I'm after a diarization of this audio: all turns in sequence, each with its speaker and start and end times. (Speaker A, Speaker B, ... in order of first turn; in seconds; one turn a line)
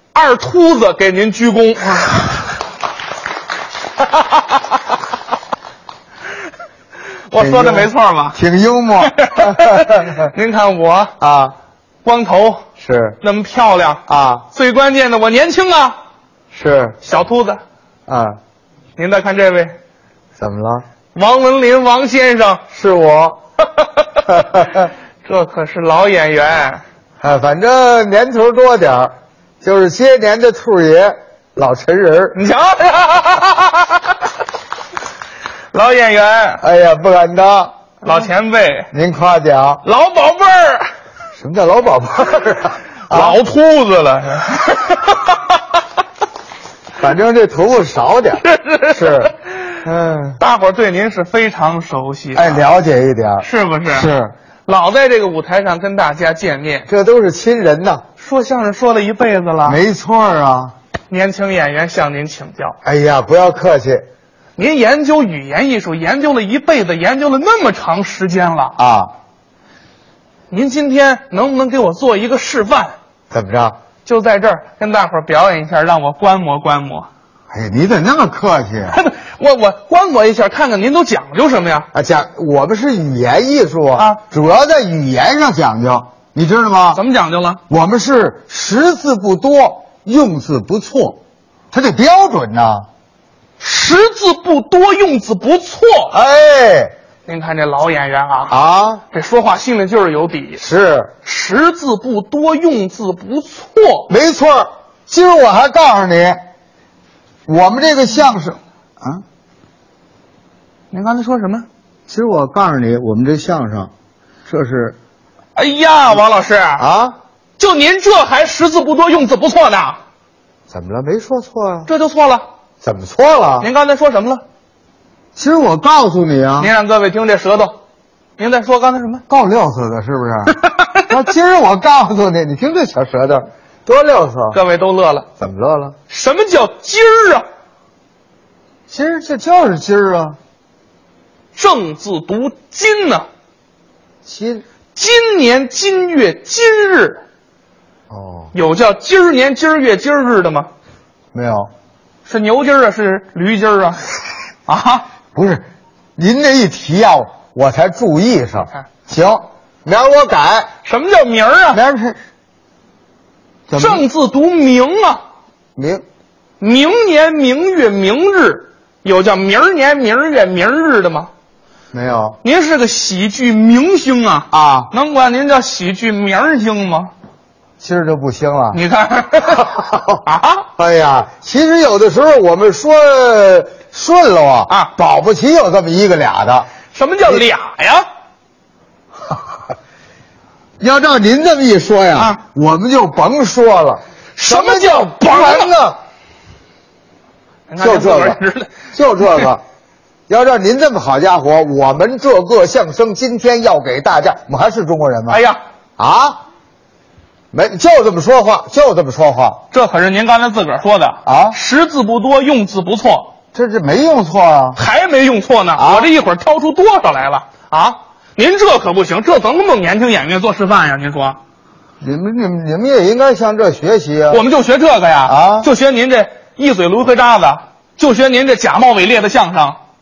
Speaker A: 0.1-2.5
Speaker A: 7.3-8.4
Speaker B: 7.4-10.3
Speaker A: 9.0-11.2
Speaker B: 11.2-11.5
Speaker A: 12.0-16.0
Speaker B: 12.8-13.2
Speaker B: 14.1-14.4
Speaker B: 16.5-17.0
Speaker A: 17.0-17.6
Speaker B: 18.1-18.4
Speaker A: 19.0-19.7
Speaker B: 20.4-20.8
Speaker A: 21.1-22.7
Speaker B: 22.7-23.4
Speaker A: 23.8-26.8
Speaker B: 24.3-24.9
Speaker B: 27.2-32.4
Speaker A: 32.3-34.1
Speaker A: 35.7-36.6
Speaker B: 36.6-37.7
Speaker A: 38.0-38.9
Speaker B: 38.9-39.8
Speaker A: 39.8-40.9
Speaker B: 41.4-43.4
Speaker A: 43.1-45.6
Speaker B: 47.0-49.3
Speaker A: 48.5-49.3
Speaker B: 49.8-50.4
Speaker A: 50.4-52.6
Speaker B: 52.4-54.3
Speaker A: 53.4-54.1
Speaker A: 54.7-56.9
Speaker B: 56.9-58.0
Speaker A: 58.2-59.8
Speaker B: 59.6-60.7
Speaker A: 61.1-62.8
Speaker B: 62.8-64.0
Speaker A: 64.6-68.8
Speaker B: 68.8-69.1
Speaker A: 70.5-72.9
Speaker B: 73.3-73.8
Speaker A: 74.0-77.1
Speaker B: 77.5-79.0
Speaker A: 78.9-81.9
Speaker B: 81.9-87.0
Speaker A: 84.0-84.2
Speaker A: 86.9-87.6
Speaker B: 87.7-91.2
Speaker B: 91.7-92.9
Speaker A: 93.6-96.2
Speaker B: 96.1-96.9
Speaker A: 97.3-98.5
Speaker B: 98.5-99.0
Speaker A: 99.1-100.6
Speaker B: 100.6-101.1
Speaker A: 101.2-104.1
Speaker B: 104.1-106.4
Speaker B: 107.5-109.2
Speaker A: 110.9-111.7
Speaker B: 112.1-113.9
Speaker B: 114.5-115.0
Speaker A: 115.6-116.8
Speaker B: 116.8-117.2
Speaker A: 117.6-120.0
Speaker B: 120.7-121.9
Speaker A: 121.9-122.5
Speaker B: 122.8-123.7
Speaker A: 123.6-124.4
Speaker B: 125.4-126.7
Speaker A: 126.6-127.8
Speaker A: 128.4-129.2
Speaker B: 129.3-134.6
Speaker A: 134.5-135.3
Speaker B: 135.4-135.9
Speaker A: 136.1-137.5
Speaker B: 138.9-140.4
Speaker A: 141.6-143.3
Speaker B: 144.3-144.6
Speaker A: 144.9-147.2
Speaker B: 148.1-148.5
Speaker A: 148.5-150.7
Speaker B: 151.3-151.7
Speaker A: 152.3-155.1
Speaker B: 155.3-155.7
Speaker B: 156.2-160.7
Speaker A: 160.8-161.8
Speaker B: 161.7-162.2
Speaker B: 163.7-164.1
Speaker A: 163.8-165.2
Speaker B: 165.8-166.0
Speaker A: 166.6-171.3
Speaker B: 171.9-172.4
Speaker A: 172.4-177.1
Speaker B: 174.5-174.9
Speaker B: 177.8-178.8
Speaker A: 178.7-180.7
Speaker B: 179.5-180.2
Speaker B: 180.8-186.7
Speaker A: 186.9-188.1
Speaker B: 190.8-196.0
Speaker A: 194.4-195.7
Speaker A: 197.7-199.5
Speaker B: 197.8-198.4
Speaker B: 198.9-199.6
Speaker B: 200.3-205.4
Speaker A: 205.3-205.6
Speaker B: 206.0-206.4
Speaker B: 207.5-209.6
Speaker A: 209.7-213.3
Speaker B: 211.2-211.6
Speaker B: 213.5-214.8
Speaker A: 214.8-221.4
Speaker B: 215.8-216.1
Speaker B: 222.0-224.4
Speaker A: 224.3-229.8
Speaker B: 225.3-225.7